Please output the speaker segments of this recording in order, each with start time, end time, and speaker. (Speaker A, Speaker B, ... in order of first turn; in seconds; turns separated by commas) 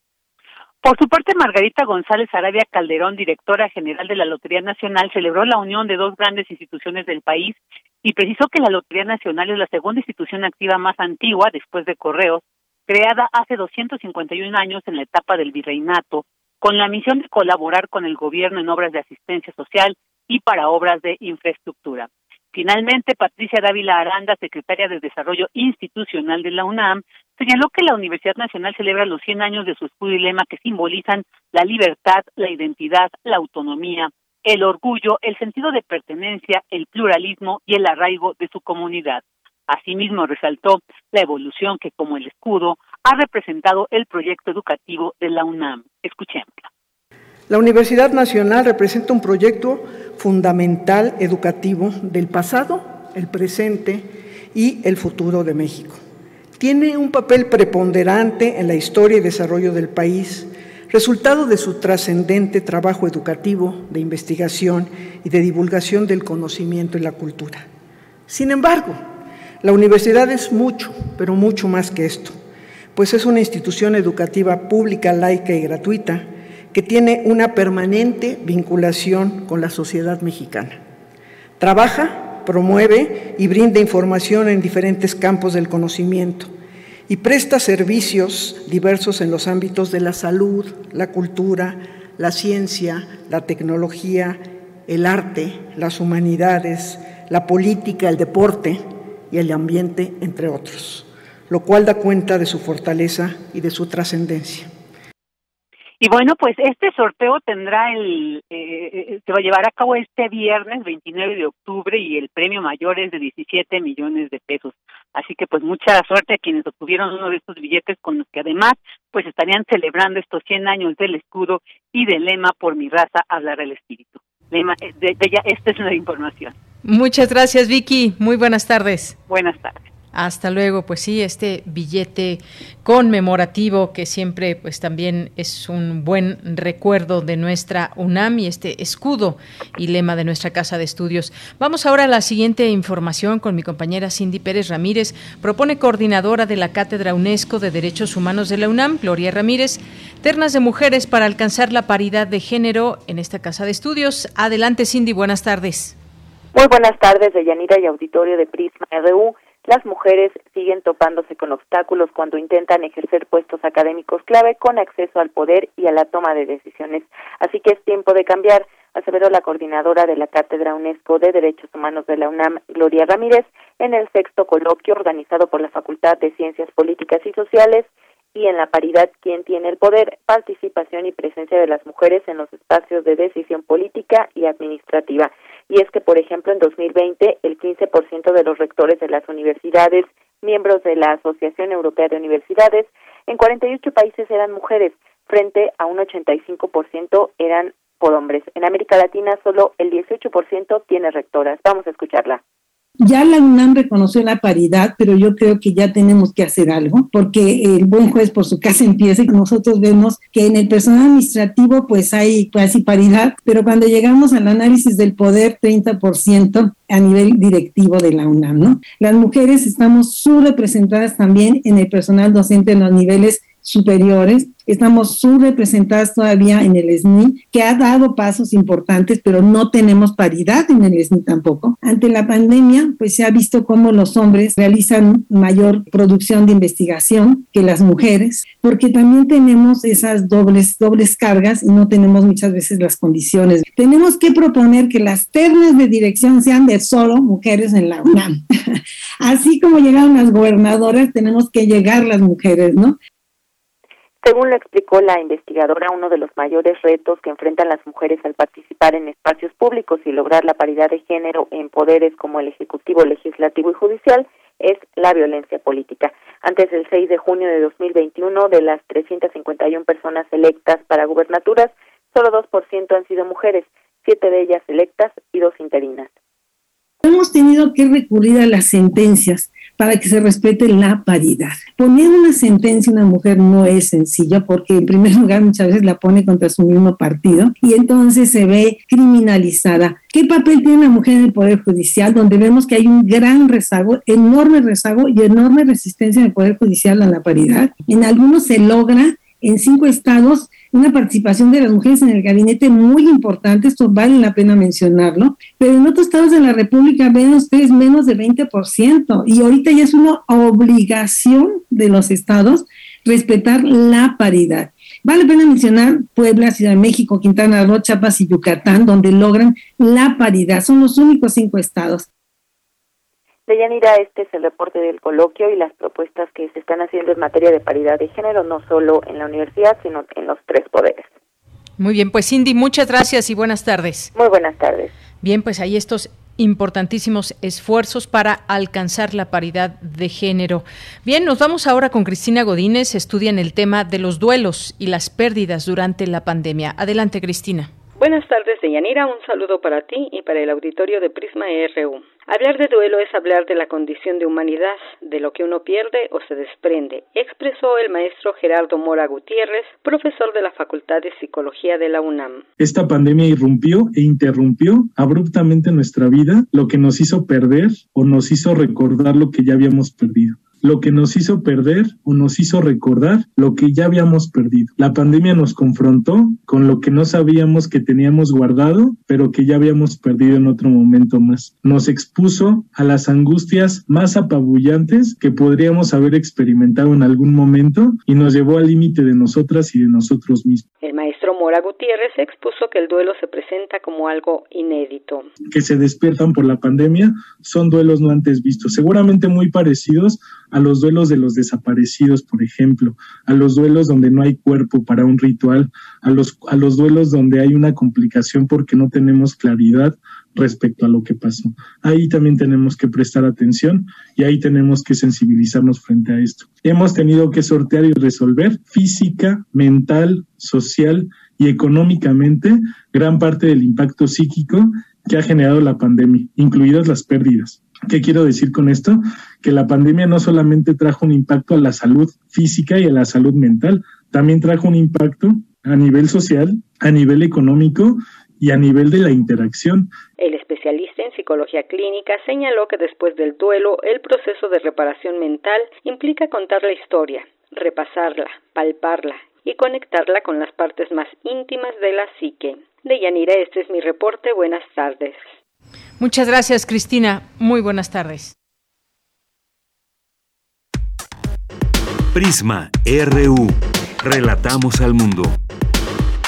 Speaker A: 0.8-46.7, Speaker B: 47.5-56.0, Speaker B: 56.6-67.7, Speaker B: 68.3-69.0, Speaker B: 69.6-72.4, Speaker B: 72.9-80.8, Speaker B: 81.6-86.5, Speaker B: 87.1-104.7, Speaker A: 106.0-126.5, Speaker C: 126.8-129.2, Speaker A: 129.3-129.8, Speaker C: 130.1-155.9, Speaker D: 156.5-202.4, Speaker E: 203.0-253.0, Speaker D: 254.2-276.1, Speaker E: 277.0-322.1, Speaker D: 323.5-331.1, Speaker C: 331.8-334.1, Speaker D: 334.1-334.9, Speaker C: 335.2-347.7, Speaker F: 348.0-362.4, Speaker G: 362.6-390.7, Speaker F: 390.8-395.3, Speaker G: 395.5-439.9, Speaker F: 440.2-455.3, Speaker C: 456.0-458.3, Speaker H: 462.1-465.4